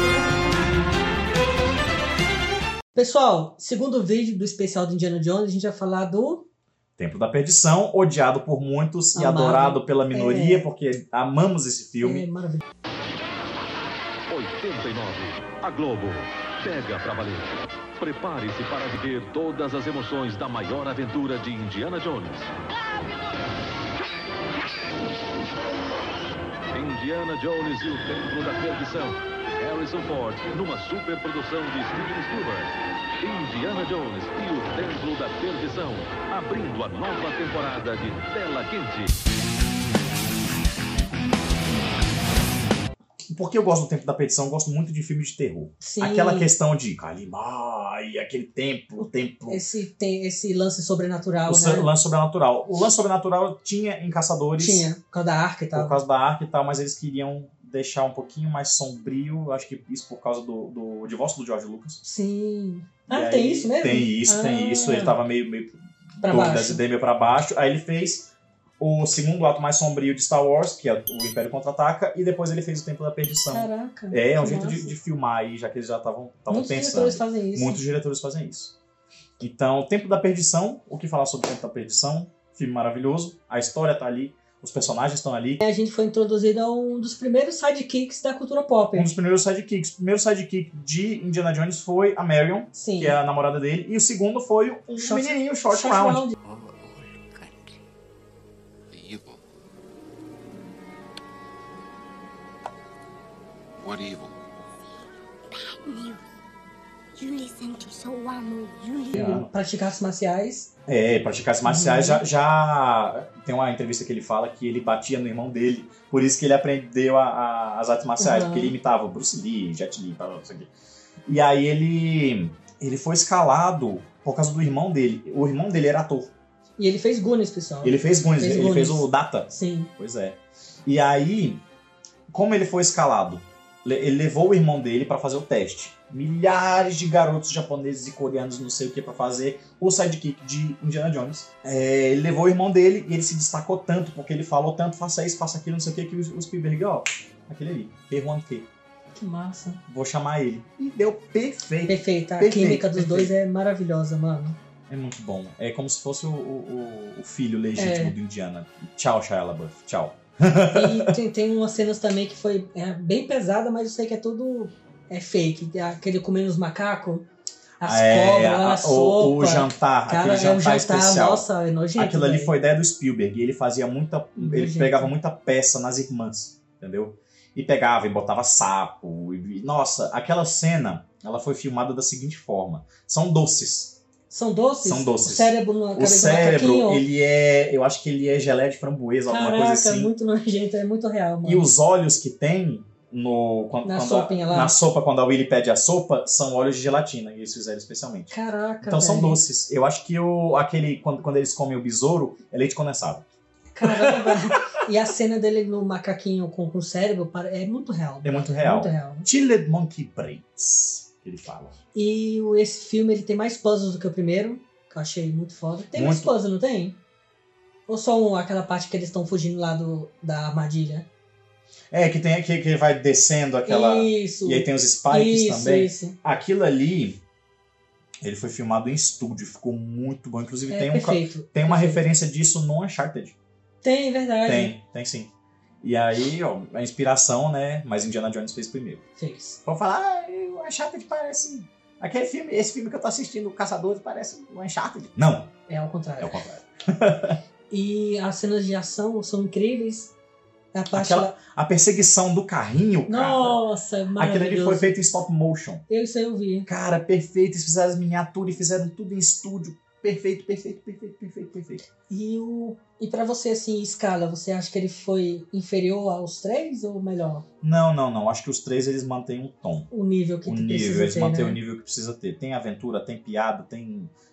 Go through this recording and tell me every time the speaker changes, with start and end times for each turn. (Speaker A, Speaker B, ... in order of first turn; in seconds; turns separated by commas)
Speaker A: 2.9-6.5, Speaker B: 7.0-12.2, Speaker A: 9.1-10.7, Speaker A: 12.0-12.6, Speaker C: 14.3-22.5, Speaker C: 26.7-39.1, Speaker B: 43.3-49.6, Speaker A: 45.8-46.5, Speaker A: 49.5-51.9, Speaker B: 51.5-54.9, Speaker A: 54.6-56.0, Speaker B: 55.7-62.0, Speaker A: 62.0-65.2, Speaker B: 63.1-78.8, Speaker A: 66.2-66.8, Speaker A: 73.5-74.9, Speaker A: 76.5-77.8, Speaker B: 79.4-85.6, Speaker A: 85.6-89.1, Speaker B: 88.9-96.2, Speaker A: 92.7-93.2, Speaker A: 95.0-96.3, Speaker D: 96.5-97.2, Speaker D: 98.9-99.4, Speaker D: 103.8-104.3, Speaker E: 105.5-106.2, Speaker E: 107.2-109.3, Speaker A: 109.1-110.7, Speaker B: 109.1-109.5, Speaker B: 110.9-120.7, Speaker A: 111.6-112.2, Speaker A: 118.2-118.7, Speaker B: 121.3-126.3, Speaker A: 126.8-129.9, Speaker B: 127.8-131.6, Speaker B: 132.3-148.7, Speaker A: 149.1-149.8, Speaker B: 149.9-153.3, Speaker A: 151.8-154.6, Speaker B: 154.9-161.1, Speaker A: 157.8-158.1, Speaker A: 160.7-167.3, Speaker A: 167.8-172.6, Speaker B: 167.8-184.0, Speaker A: 174.4-175.1, Speaker A: 184.3-187.0, Speaker B: 184.8-190.1, Speaker A: 189.3-191.7, Speaker B: 191.4-198.3, Speaker A: 193.8-194.8, Speaker A: 198.3-199.4, Speaker B: 198.8-203.2, Speaker A: 203.7-209.3, Speaker B: 203.8-204.6, Speaker B: 208.2-211.7, Speaker A: 211.9-217.0, Speaker B: 215.9-216.3, Speaker A: 217.9-221.1, Speaker B: 221.9-227.2, Speaker A: 223.7-226.2, Speaker B: 228.2-233.3, Speaker A: 230.7-232.0, Speaker A: 233.8-234.7, Speaker B: 234.4-235.3, Speaker B: 235.8-239.0, Speaker A: 239.2-239.6, Speaker B: 239.6-245.5, Speaker A: 245.7-246.4, Speaker B: 246.2-247.4, Speaker A: 247.7-250.1, Speaker A: 250.7-251.3, Speaker B: 250.9-253.6, Speaker A: 253.1-255.0, Speaker B: 254.2-255.8, Speaker A: 255.9-256.7, Speaker B: 256.7-261.8, Speaker A: 262.1-267.4, Speaker B: 267.6-269.9, Speaker A: 269.9-271.6, Speaker B: 270.4-274.1